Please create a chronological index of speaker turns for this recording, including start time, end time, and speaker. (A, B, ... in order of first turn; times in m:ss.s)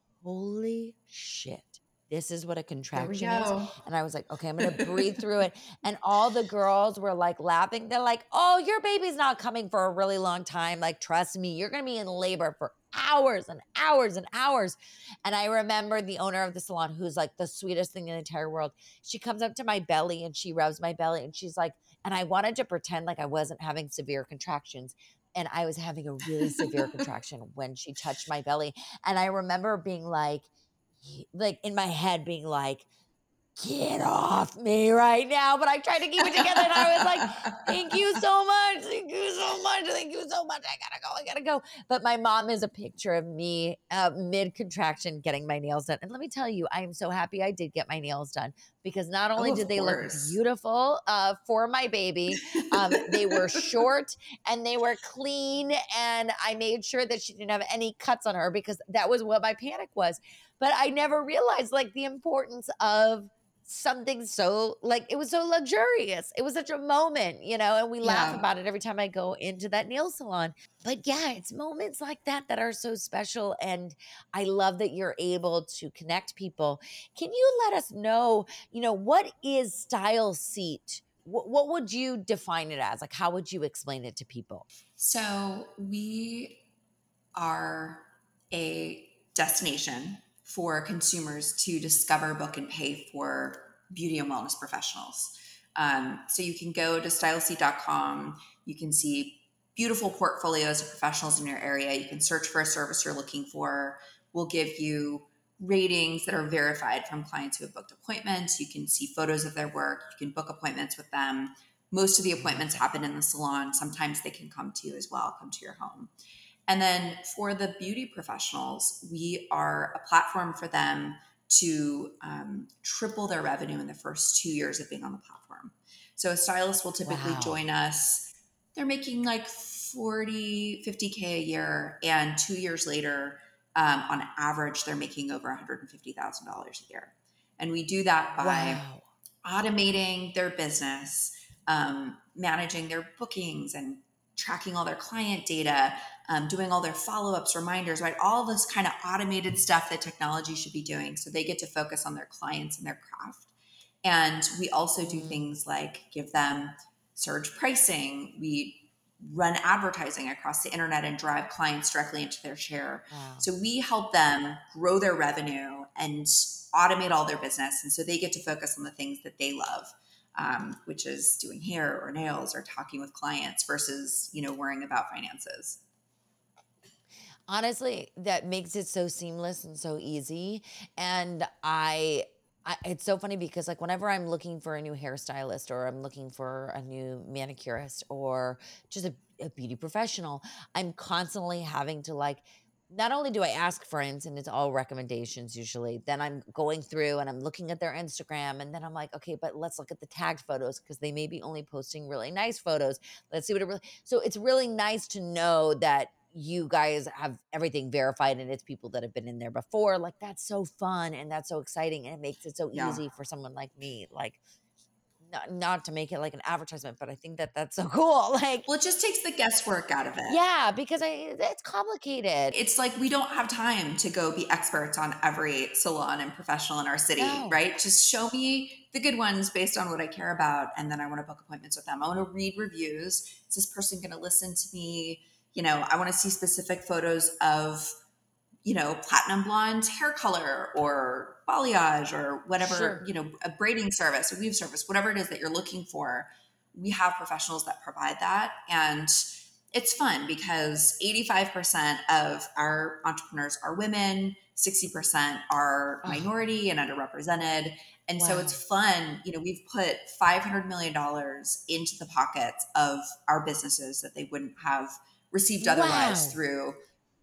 0:00.2-0:30.5 A
0:02.9-0:03.8 B
0:04.6-0:05.2 B
0:26.4-0:27.0 B
0:31.0-0:32.8 A
0:33.6-1:24.7 A
0:36.2-0:38.2 B
0:49.4-0:50.4 B
0:52.4-0:53.8 B
1:08.0-1:08.4 B
1:25.0-1:26.6 B
1:27.3-1:56.1 B
1:52.4-1:52.8 A
1:56.7-2:18.8 B
2:07.0-2:07.6 A
2:18.4-2:19.0 A
2:19.4-2:33.5 B
2:34.0-2:55.8 B
2:35.0-2:35.5 A
2:43.1-2:43.5 A
2:57.5-3:34.4 A
3:32.7-3:33.0 B
3:35.2-3:38.7 A
3:38.7-3:40.4 B
3:40.3-3:42.5 A
3:42.5-3:57.9 B
3:47.2-3:47.6 A
3:58.6-4:26.8 B
4:02.6-4:03.0 A
4:16.0-4:16.3 A
4:18.2-4:18.6 A
4:25.6-4:26.4 A